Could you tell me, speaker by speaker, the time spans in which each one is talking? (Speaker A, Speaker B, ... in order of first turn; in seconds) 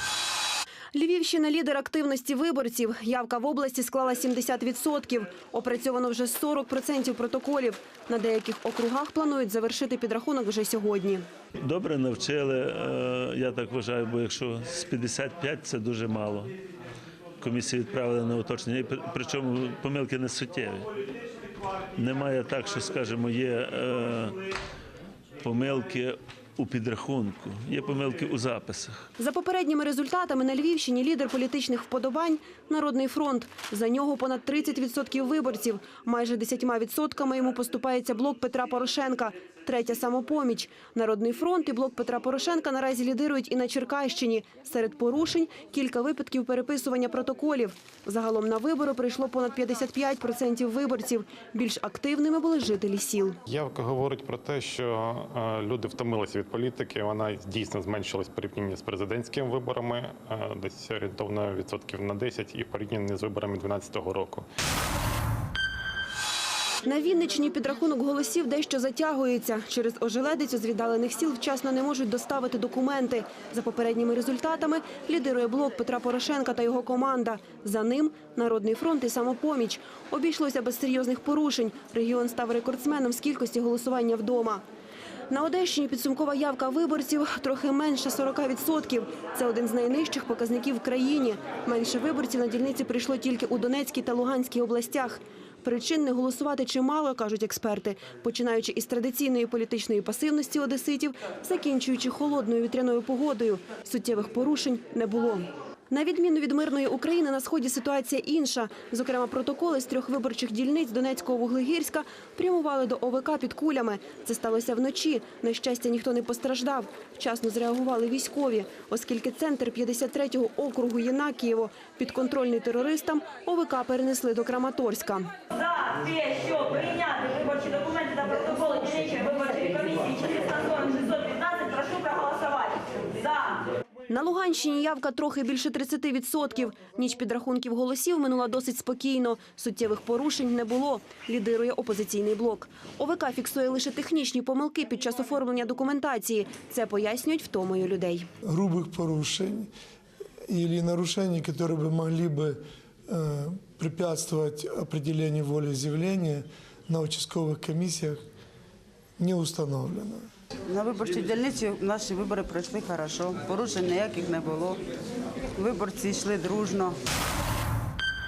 Speaker A: 0.9-11.2, 29.2-53.4, 66.8-84.6, 85.3-125.3, 134.1-148.3
Speaker B: 11.6-16.5, 17.4-20.9, 21.9-24.4, 25.4-29.0
Speaker C: 53.5-64.5
Speaker D: 125.5-133.6
Speaker E: 148.4-149.7, 150.5-158.2, 159.2-160.3
Speaker F: 160.7-164.8, 165.5-166.9